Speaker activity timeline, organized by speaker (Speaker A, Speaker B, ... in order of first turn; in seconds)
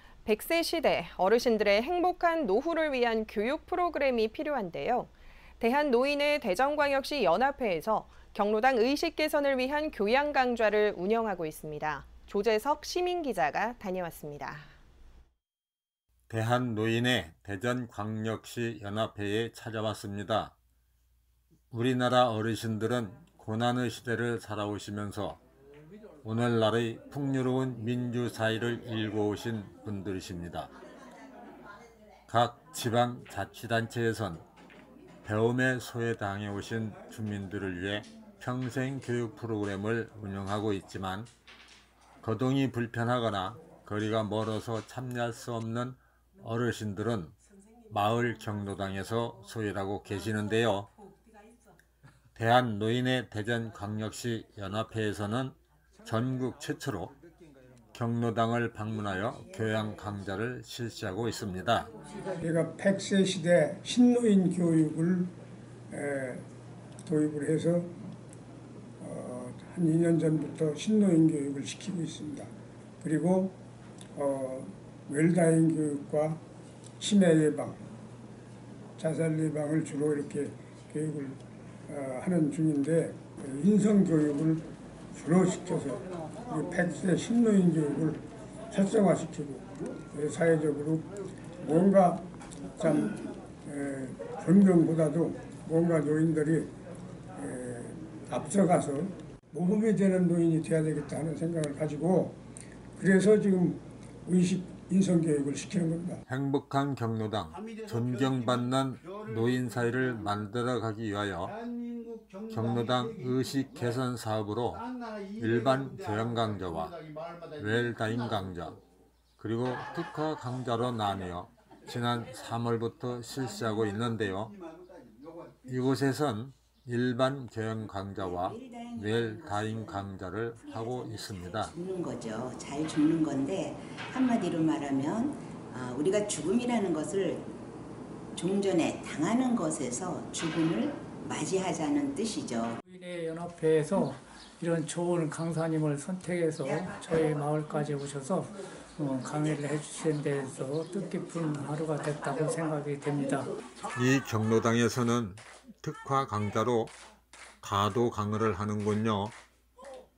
Speaker A: 0.2-14.7
Speaker B: 16.3-20.5, 21.7-25.4, 26.2-30.7, 32.3-34.4, 35.2-41.3, 42.2-47.4, 47.9-50.9, 52.3-57.1, 57.9-61.9, 106.3-111.5, 112.5-114.8, 115.4-117.0, 117.6-118.8, 119.4-124.5, 125.7-131.8, 153.9-156.9, 157.6-159.3
Speaker C: 62.3-65.3, 65.9-66.4, 67.0-67.9, 69.0-72.5, 73.0-73.6, 74.1-76.4, 77.0-77.8, 79.0-96.7, 97.3-102.4, 103.0-106.2
Speaker D: 128.2-137.5, 138.3-142.8
Speaker E: 142.8-153.5